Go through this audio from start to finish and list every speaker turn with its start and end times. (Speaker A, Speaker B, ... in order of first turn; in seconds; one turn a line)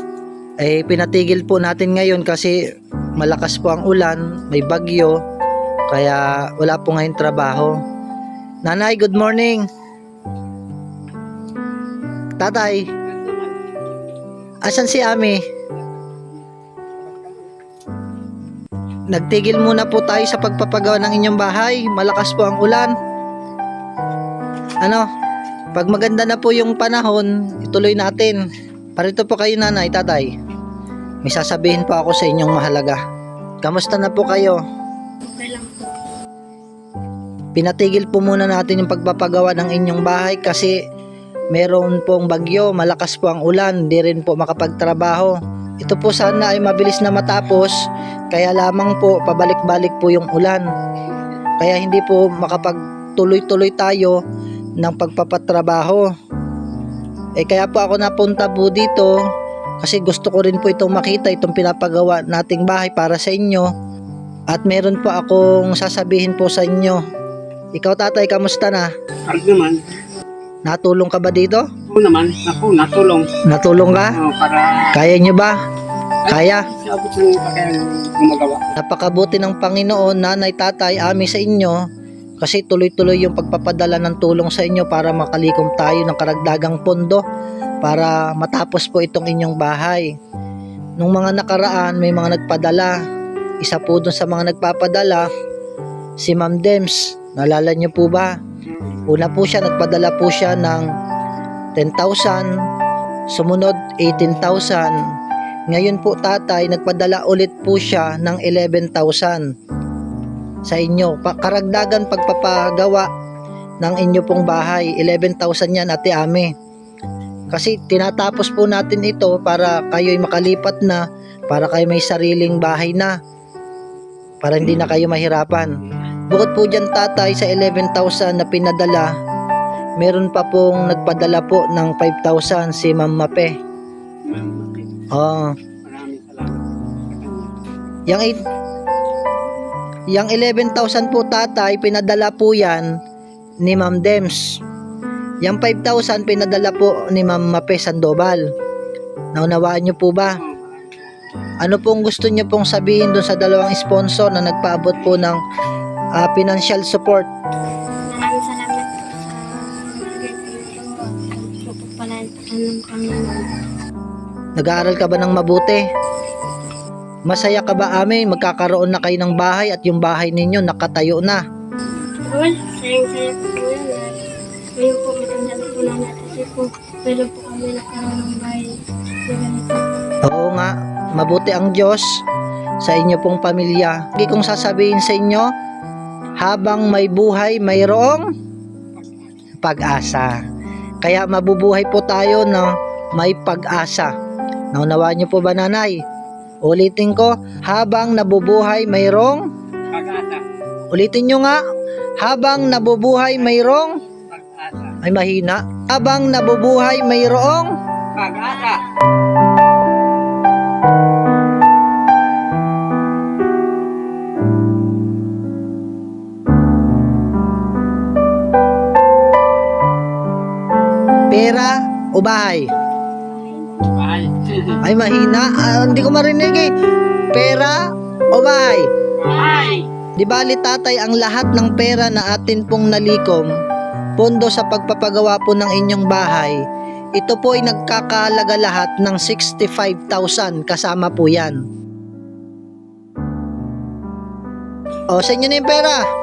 Speaker A: 0.6-2.5
Speaker A: 3.2-5.2
Speaker A: 5.9-7.7
Speaker A: 8.7-9.6
Speaker A: 12.4-12.8
Speaker B: 13.1-13.6
Speaker A: 14.6-15.4
Speaker B: 17.0-17.5
Speaker A: 19.1-22.9
Speaker A: 25.7-28.4
Speaker A: 29.0-30.3
Speaker A: 31.2-33.0
Speaker A: 33.6-34.6
Speaker C: 35.2-35.9
Speaker A: 37.6-40.8
Speaker A: 41.5-47.7
Speaker A: 48.3-50.6
Speaker A: 51.6-54.1
Speaker A: 54.8-56.0
Speaker A: 57.4-59.1
Speaker A: 59.8-63.7
Speaker A: 64.5-67.0
Speaker A: 67.8-68.9
Speaker B: 69.2-69.8
Speaker A: 70.7-71.6
Speaker B: 71.9-73.3
Speaker A: 73.4-74.1
Speaker B: 74.2-75.0
Speaker A: 74.9-75.6
Speaker A: 76.3-76.7
Speaker B: 76.3-78.8
Speaker A: 78.8-81.8
Speaker A: 82.4-87.2
Speaker A: 87.8-90.1
Speaker A: 91.0-92.9
Speaker A: 93.6-95.2
Speaker A: 96.2-98.3
Speaker B: 98.6-99.1
Speaker A: 99.1-100.8
Speaker A: 101.8-102.5
Speaker A: 103.3-105.0
Speaker A: 105.7-109.4
Speaker A: 110.7-113.1
Speaker A: 113.8-116.5
Speaker A: 117.5-123.1
Speaker A: 124.4-125.7
Speaker A: 126.3-129.1
Speaker A: 130.0-133.5
Speaker B: 134.2-135.0
Speaker A: 135.1-135.5
Speaker B: 135.8-137.6
Speaker A: 138.1-138.4
Speaker A: 140.1-142.9
Speaker A: 143.6-144.4
Speaker A: 145.4-148.4
Speaker A: 149.3-150.4
Speaker B: 150.3-151.2
Speaker A: 151.6-155.4
Speaker A: 156.2-157.3
Speaker C: 158.1-163.6
Speaker A: 164.6-165.8
Speaker A: 167.3-171.4
Speaker C: 172.2-174.2
Speaker C: 174.8-178.7
Speaker C: 179.3-180.1
Speaker A: 180.2-182.0
Speaker A: 182.8-185.5
Speaker A: 186.4-188.2
Speaker B: 189.0-189.2
Speaker A: 189.6-190.3
Speaker A: 191.0-194.1
Speaker A: 194.7-196.0
Speaker A: 196.7-199.4
Speaker B: 199.9-200.4
Speaker A: 200.9-201.6
Speaker A: 202.2-204.0
Speaker B: 204.3-205.0
Speaker A: 205.0-207.7
Speaker B: 208.2-208.8
Speaker A: 221.3-222.6
Speaker C: 223.3-223.8
Speaker B: 223.8-224.8
Speaker A: 224.8-226.7
Speaker A: 227.3-227.8
Speaker A: 228.3-228.9
Speaker B: 229.2-229.9
Speaker A: 230.2-233.5
Speaker A: 234.2-236.6
Speaker A: 237.2-241.6
Speaker A: 245.1-246.0